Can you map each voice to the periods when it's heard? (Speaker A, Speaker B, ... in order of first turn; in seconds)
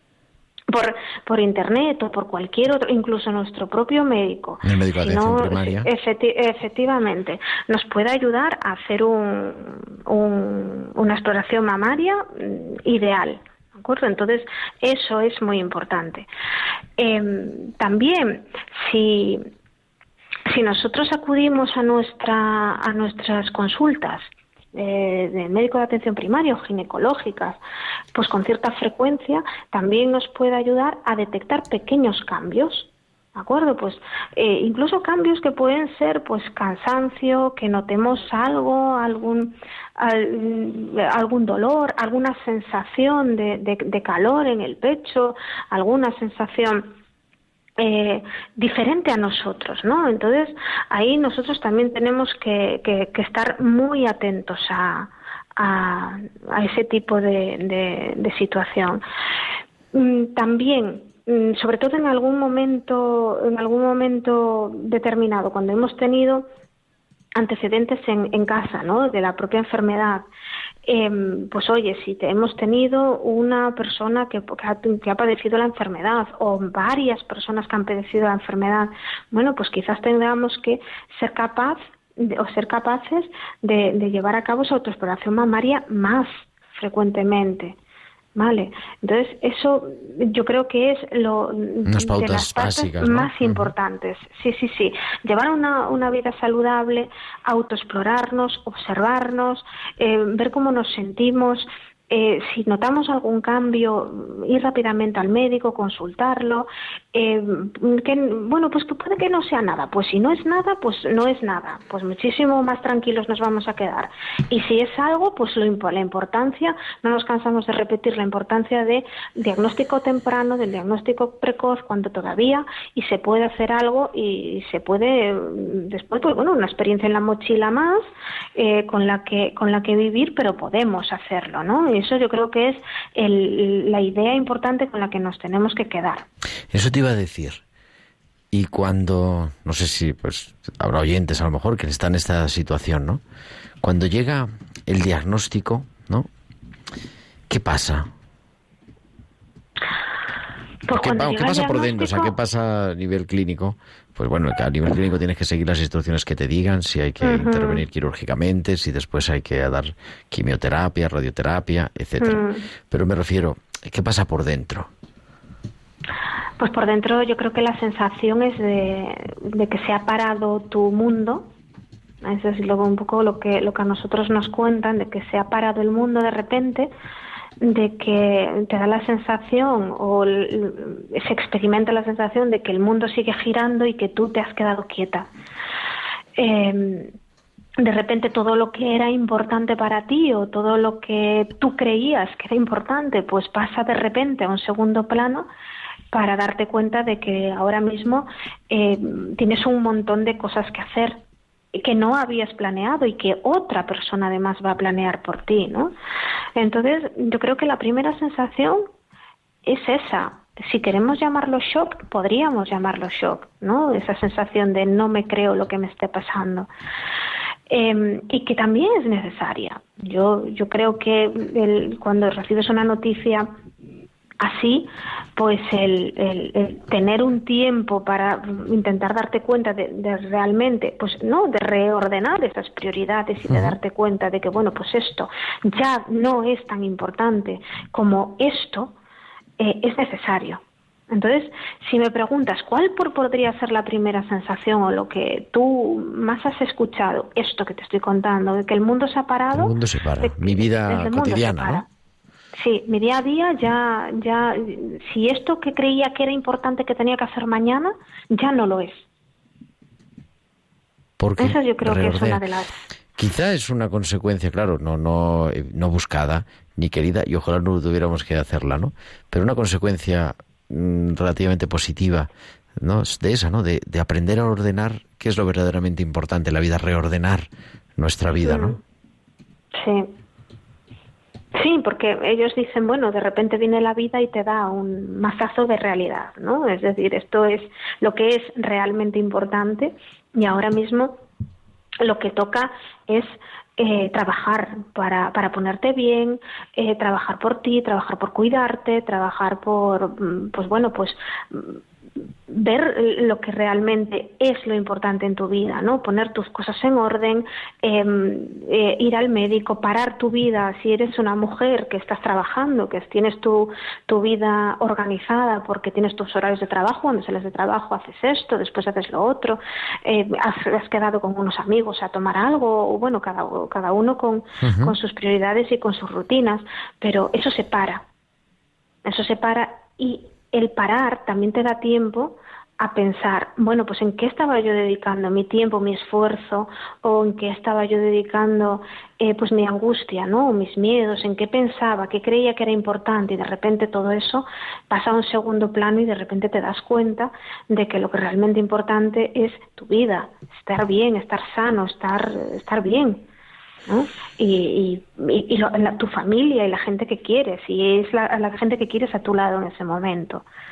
Speaker A: 0.7-16.3, 17.0-19.4, 20.5-27.6, 28.1-46.9, 47.8-59.0, 59.9-66.5, 67.4-70.3, 70.8-87.8, 88.3-128.0, 128.6-136.3, 150.9-152.3, 157.2-157.8, 162.2-162.6, 166.6-171.5, 172.2-176.9, 177.6-185.3, 186.3-187.1, 187.8-195.5, 196.1-201.2, 201.7-205.9, 206.6-208.9, 209.7-216.7, 217.7-223.5, 224.4-238.9, 239.6-251.9, 252.5-259.0, 261.4-262.7, 278.4-278.8, 279.7-280.1, 281.6-291.2, 292.0-301.8, 302.5-328.0, 329.1-353.2, 353.9-360.4
Speaker B: 4.6-5.9, 91.9-93.7, 136.7-137.6, 138.5-143.2, 143.8-146.3, 147.5-148.1, 150.9-164.9, 249.5-251.8, 261.2-262.4, 263.2-278.8, 324.6-324.9